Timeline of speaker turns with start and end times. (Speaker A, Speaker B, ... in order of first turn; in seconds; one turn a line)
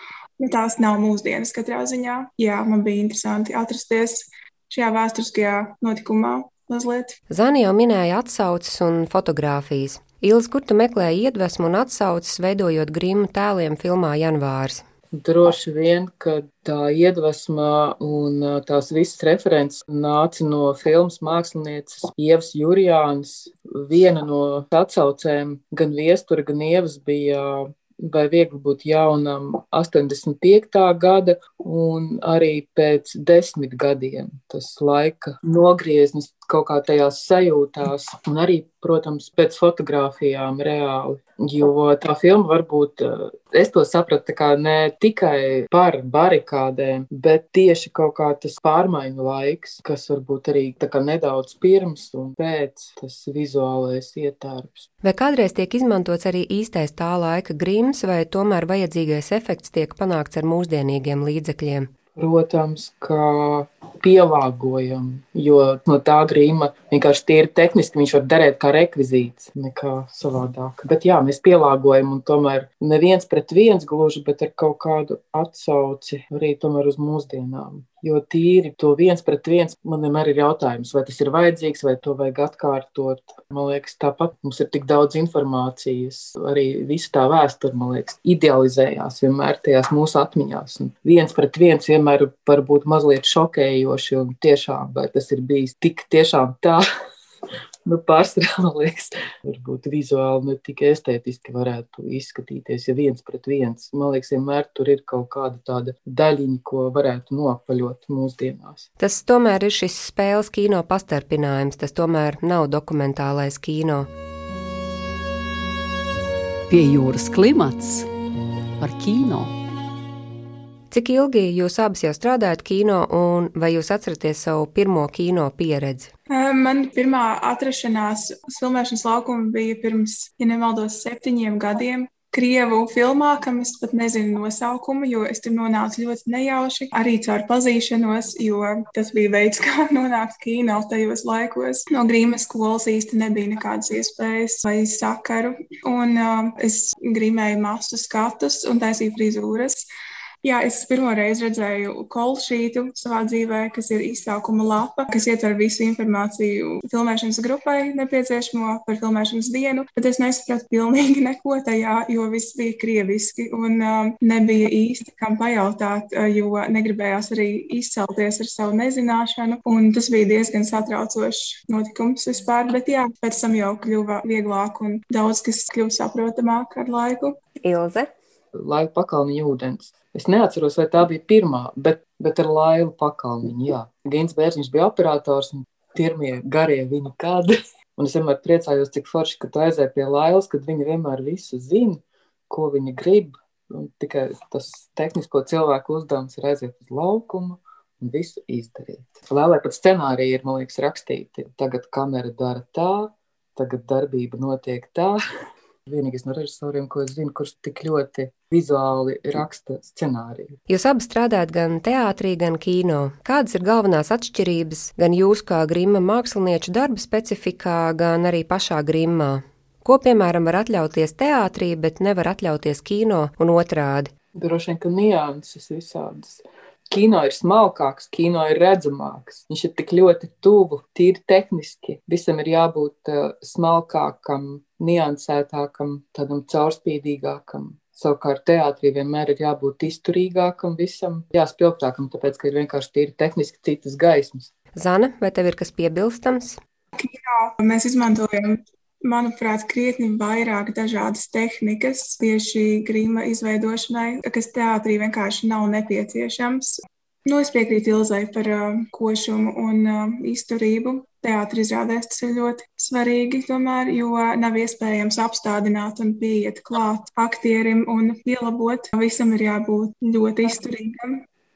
Speaker A: 0.4-7.2
Speaker B: 7.3-14.8
Speaker C: 15.1-54.9
Speaker B: 55.0-61.9
Speaker C: 62.1-96.8
Speaker C: 97.8-108.9
Speaker B: 109.0-114.1
Speaker D: 116.7-118.1
Speaker D: 118.8-119.5
Speaker B: 120.9-126.1
Speaker A: 126.3-149.8
Speaker A: 150.4-177.4
Speaker B: 177.6-178.1
Speaker C: 178.5-205.2
Speaker C: 205.8-210.6
Speaker B: 210.7-224.1
Speaker C: 224.4-244.5
Speaker B: 244.7-246.6
Speaker A: 246.9-271.2